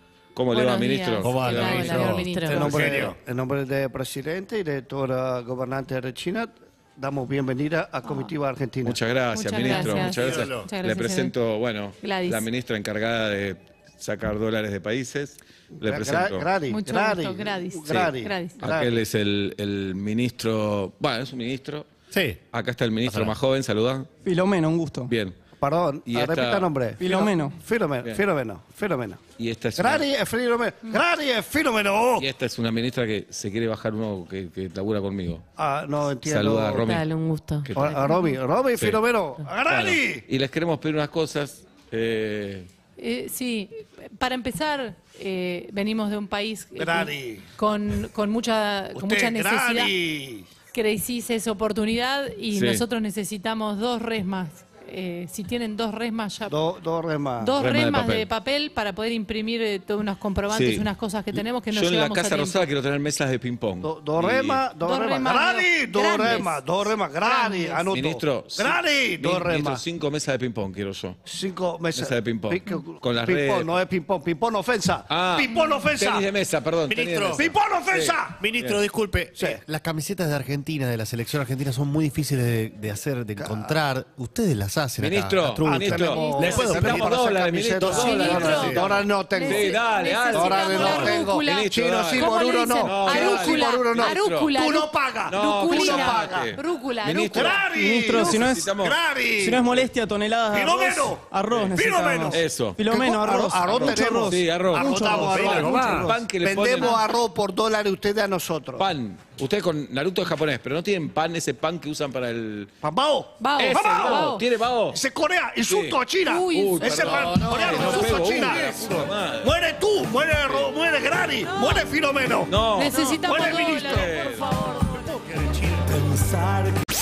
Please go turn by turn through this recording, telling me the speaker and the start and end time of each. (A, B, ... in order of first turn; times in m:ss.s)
0:00.4-0:02.2 A
0:00.5-0:02.8 B
0:01.2-0:03.2 C
0:01.6-0:02.7 D
0:02.5-0:09.0 E
0:08.1-0:08.3 B
0:08.8-0:16.5 A
0:09.3-0:11.3 B
0:10.0-0:10.7 C
0:12.0-0:12.5 B
0:15.8-0:19.0 E
0:16.7-0:18.6 B
0:17.9-0:21.9 A
0:22.1-0:22.4 C
0:22.5-0:24.1 A
0:23.0-0:23.4 C
0:24.2-0:25.1 F
0:25.1-0:25.4 A
0:25.6-0:29.2 E
0:26.1-0:26.7 A
0:27.0-0:27.6 F
0:29.4-0:30.1 A
0:29.8-0:32.3 E
0:32.2-0:35.4 A
0:35.6-0:36.9 E
0:36.2-0:37.1 A
0:36.7-0:37.7 D
0:37.6-0:38.0 A
0:37.7-0:40.2 E
0:38.0-0:38.4 B
0:38.8-0:39.0 A
0:39.6-0:42.7 A
0:43.0-0:49.9 B
0:46.8-0:47.4 E
0:49.0-0:50.5 E
0:50.7-0:56.6 B
0:52.5-0:52.8 A
0:56.5-0:57.6 E
0:57.4-1:02.7 B
0:57.6-0:58.3 A
1:00.5-1:04.6 A
1:03.8-1:09.8 E
1:04.8-1:07.9 B
1:07.9-1:11.2 A
1:11.3-1:16.3 E
1:11.9-1:13.8 A
1:15.1-1:18.8 A
1:16.9-1:17.5 C
1:17.4-1:18.4 E
1:18.3-1:27.2 C
1:19.4-1:19.6 E
1:23.4-1:23.8 E
1:25.0-1:34.5 A
1:25.6-1:29.8 E
1:26.1-1:26.7 B
1:27.8-1:28.9 C
1:28.0-1:37.6 B
1:30.3-1:36.6 E
1:35.3-1:39.0 A
1:37.3-1:39.8 E
1:37.7-1:38.7 F
1:39.3-1:45.9 F
1:40.5-1:48.9 E
1:42.3-1:42.8 A
1:43.8-1:47.0 A
1:48.8-1:52.7 A
1:52.8-1:54.4 E
1:53.4-1:54.4 B
1:53.6-1:55.0 A
1:54.9-2:02.5 E
1:55.6-1:59.6 A
1:56.2-1:58.1 B
2:01.5-2:01.9 B
2:02.5-2:04.5 A
2:02.7-2:05.1 B
2:03.1-2:04.2 E
2:04.8-2:06.6 E